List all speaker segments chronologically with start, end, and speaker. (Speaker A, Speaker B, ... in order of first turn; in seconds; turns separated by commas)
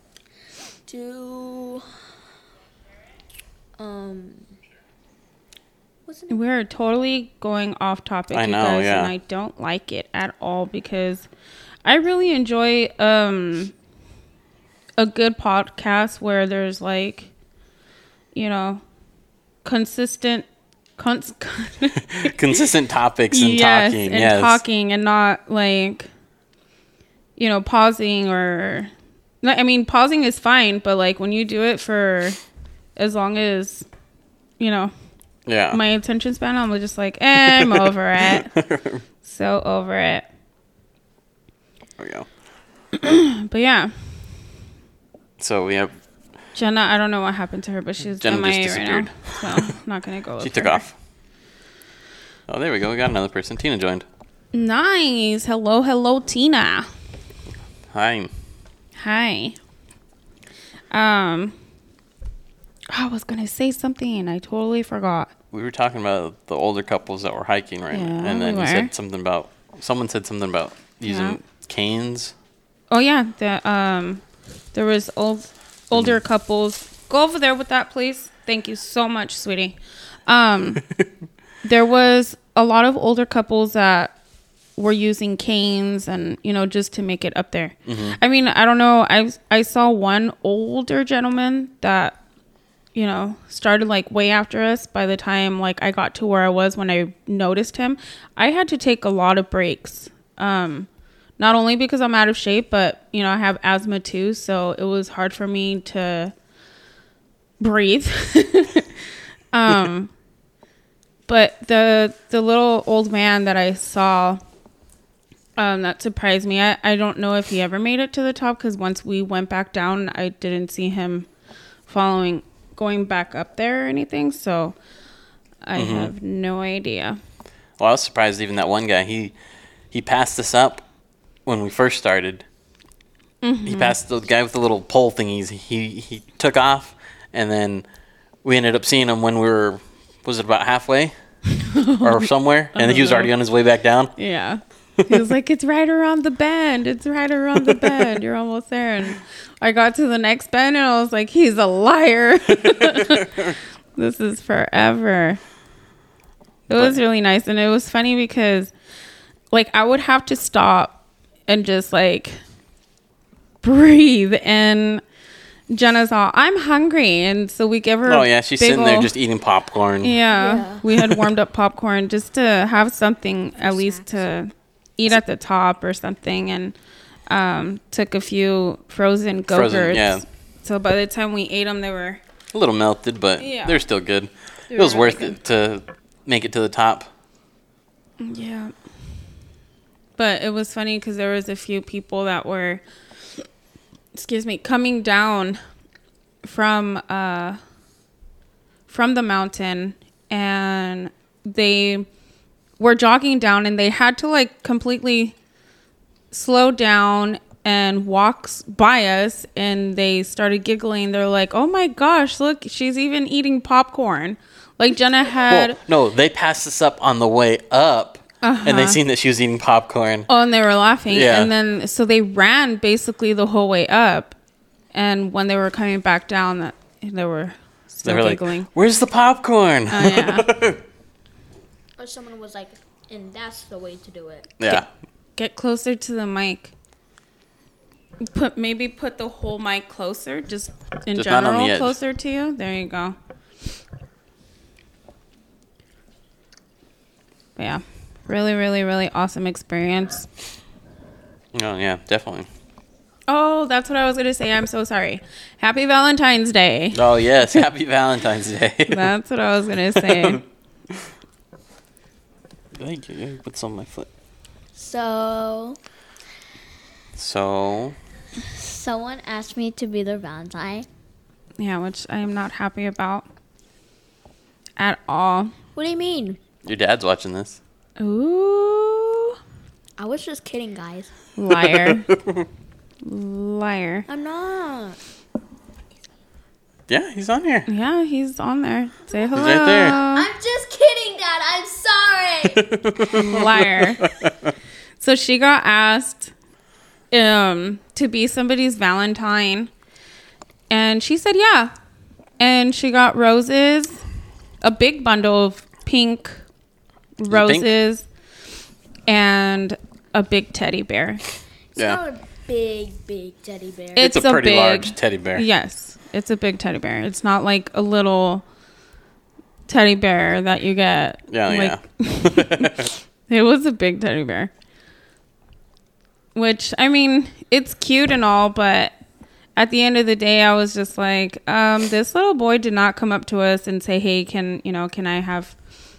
Speaker A: 0.9-1.8, Speaker A: 3.8-4.6, Speaker A: 6.0-6.3, Speaker B: 6.3-11.3, Speaker C: 8.3-9.1, Speaker B: 11.8-13.7, Speaker B: 15.0-17.3, Speaker B: 18.3-18.8, Speaker B: 19.6-22.4, Speaker C: 22.0-24.6, Speaker B: 23.3-26.1, Speaker B: 27.4-32.4, Speaker B: 33.0-33.9, Speaker B: 34.6-34.9, Speaker C: 35.5-35.8, Speaker B: 35.7-38.5, Speaker C: 37.4-39.0, Speaker B: 39.2-40.2, Speaker C: 42.0-42.3, Speaker B: 43.0-43.9, Speaker C: 45.4-45.9, Speaker B: 46.5-50.8, Speaker C: 48.2-49.6, Speaker C: 50.4-50.9, Speaker C: 52.5-54.0, Speaker B: 54.5-56.9, Speaker C: 57.9-58.3, Speaker B: 59.0-59.5, Speaker B: 60.9-61.5, Speaker B: 62.9-65.3, Speaker C: 65.5-72.3, Speaker B: 67.9-68.9, Speaker B: 71.0-71.4, Speaker B: 72.9-74.2, Speaker B: 74.7-80.8, Speaker B: 81.6-84.1, Speaker B: 84.8-92.2, Speaker C: 87.8-88.2, Speaker B: 92.9-106.3, Speaker B: 107.6-109.0, Speaker B: 109.5-110.1, Speaker B: 111.3-114.4, Speaker B: 115.6-121.3, Speaker B: 121.9-124.8, Speaker B: 125.6-127.2, Speaker C: 125.8-126.1, Speaker C: 127.8-129.3, Speaker C: 129.9-130.8, Speaker C: 131.4-132.4, Speaker B: 133.4-133.9, Speaker C: 133.7-137.8, Speaker C: 138.4-141.1, Speaker B: 141.6-143.3, Speaker C: 142.0-144.1, Speaker B: 144.2-153.4, Speaker C: 152.9-153.5, Speaker B: 153.9-155.4, Speaker B: 156.7-158.7, Speaker C: 156.7-157.0, Speaker B: 159.5-162.3, Speaker B: 163.6-165.0, Speaker B: 165.7-169.1, Speaker C: 168.1-170.2, Speaker B: 170.0-176.7, Speaker A: 170.3-170.8, Speaker C: 171.0-171.2, Speaker A: 173.6-174.3, Speaker B: 177.3-182.2, Speaker C: 179.5-180.2, Speaker C: 182.5-187.1, Speaker B: 183.4-183.8, Speaker B: 184.7-185.4, Speaker B: 188.2-188.7, Speaker B: 190.2-192.8, Speaker B: 194.1-195.6, Speaker B: 196.4-197.6, Speaker B: 198.9-202.1, Speaker B: 202.8-205.3, Speaker B: 206.3-215.8, Speaker C: 215.5-220.3, Speaker B: 218.4-219.0, Speaker B: 220.3-224.3, Speaker C: 221.1-221.5, Speaker B: 224.9-228.7, Speaker C: 228.0-230.8, Speaker B: 229.9-230.5, Speaker A: 232.0-234.5, Speaker C: 234.6-234.9, Speaker B: 235.4-236.7, Speaker B: 238.2-243.2, Speaker C: 241.1-241.9, Speaker B: 247.6-250.3, Speaker C: 251.5-252.5, Speaker B: 253.3-257.0, Speaker C: 256.9-259.1, Speaker B: 258.9-260.4, Speaker C: 259.9-260.4, Speaker C: 262.8-264.1, Speaker A: 264.7-265.8, Speaker C: 267.1-268.0, Speaker A: 268.4-270.9, Speaker B: 271.6-273.2, Speaker B: 274.8-275.5, Speaker A: 275.7-276.4, Speaker C: 276.6-277.6, Speaker B: 278.0-279.4, Speaker A: 280.0-281.1, Speaker B: 281.4-282.1, Speaker C: 281.6-282.4, Speaker B: 283.0-284.1, Speaker A: 284.1-285.0, Speaker C: 286.9-287.7, Speaker B: 287.7-290.3, Speaker C: 289.3-290.0, Speaker A: 289.9-293.2, Speaker C: 292.5-294.5, Speaker B: 293.1-294.0, Speaker B: 295.0-296.3, Speaker B: 297.1-299.7, Speaker B: 300.7-301.7, Speaker B: 302.4-304.0, Speaker B: 304.6-306.4, Speaker B: 307.2-308.0, Speaker C: 307.3-307.7, Speaker B: 309.1-311.2, Speaker A: 311.7-314.1, Speaker B: 313.9-318.4, Speaker C: 314.0-315.4, Speaker B: 319.7-324.5, Speaker C: 321.3-322.9, Speaker B: 326.3-328.9, Speaker B: 329.6-335.5